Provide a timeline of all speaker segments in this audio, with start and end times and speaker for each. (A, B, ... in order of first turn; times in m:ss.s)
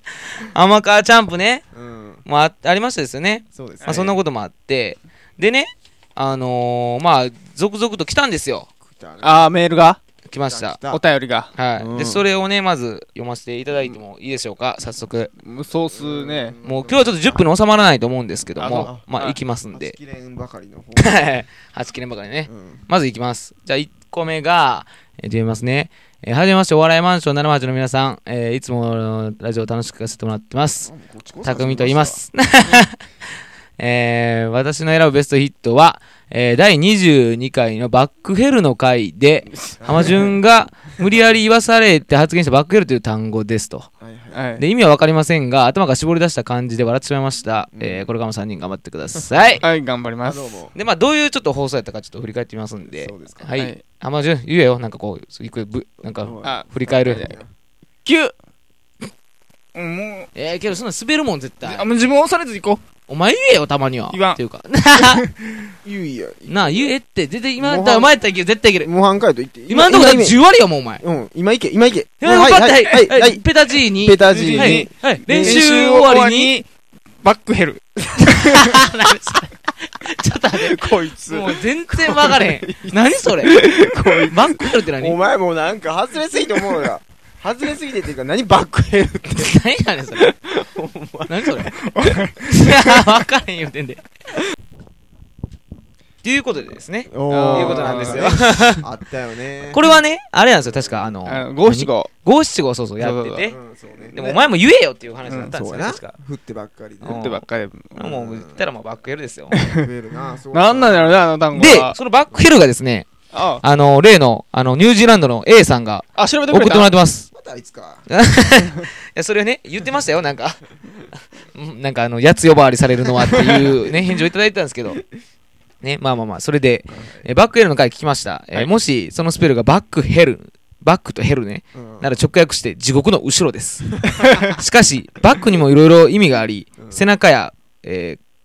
0:00.4-0:01.6 A
0:01.7-0:02.2 B
0:02.2-0:08.7 A
0:03.5-0:04.2 B
0:03.8-0:04.2 C
0:08.8-0:09.5 B
0:09.2-0:10.0 C
0:10.3-0:10.8 A
0:10.5-0:11.0 B
0:10.9-0:11.5 C
0:11.5-0:15.3 A
0:11.8-0:12.2 B
0:15.4-0:16.6 C
0:15.9-0:17.5 B
0:16.6-0:20.0 A
0:18.6-0:19.4 C
0:18.6-0:19.1 B
0:19.7-0:21.3 B
0:21.0-0:30.9 A
0:22.5-0:22.8 B
0:30.8-0:32.3 B
0:31.4-0:33.1 A
0:33.8-0:43.9 A
0:39.8-0:40.4 B
0:41.0-0:41.3 B
0:44.0-0:44.4 B
0:44.3-0:44.6 C
0:44.6-0:49.6 A
0:47.7-0:48.1 B
0:49.6-0:50.6 C
0:50.2-0:50.7 B
0:50.7-0:57.4 A
0:52.8-0:53.5 B
0:56.1-0:57.5 B
0:56.4-0:57.3 C
0:58.0-0:58.3 C
0:59.7-1:00.3 C
1:00.3-1:01.9 A
1:01.6-1:02.8 C
1:03.1-1:05.2 A
1:04.1-1:04.4 C
1:05.0-1:05.5 C
1:05.8-1:06.9 B
1:06.5-1:08.9 A
1:07.6-1:08.1 B
1:08.8-1:10.4 B
1:09.7-1:11.0 A
1:11.0-1:15.9 B
1:12.2-1:16.6 A
1:14.2-1:16.7 C
1:17.2-1:18.7 C
1:18.2-1:23.6 A
1:20.6-1:29.6 B
1:23.4-1:24.3 C
1:24.2-1:25.2 A
1:29.3-1:30.3 A
1:30.2-1:32.1 B
1:31.3-1:31.8 A
1:31.8-1:33.0 C
1:32.4-1:34.0 A
1:36.2-1:38.8 A
1:37.1-1:39.9 B
1:37.3-1:38.3 C
1:39.7-1:43.6 A
1:40.6-1:41.1 B
1:41.2-1:42.1 C
1:43.0-1:43.5 C
1:43.5-1:44.2 B
1:44.1-1:44.4 C
1:44.1-1:46.1 A
1:45.2-1:45.5 C
1:45.2-1:47.3 B
1:47.0-1:49.6 A
1:47.0-1:48.2 C
1:48.0-1:48.6 B
1:49.5-1:49.9 C
1:49.5-1:51.3 B
1:50.5-1:52.0 C
1:51.5-1:53.1 A
1:53.3-1:53.6 C
1:53.6-1:57.3 A
1:56.2-1:57.0 C
1:57.3-1:58.1 B
1:58.1-2:00.6 A
2:01.4-2:05.0 A
2:03.3-2:03.9 B
2:05.8-2:18.2 A
2:06.9-2:07.2 B
2:11.8-2:12.1 B
2:14.1-2:14.5 B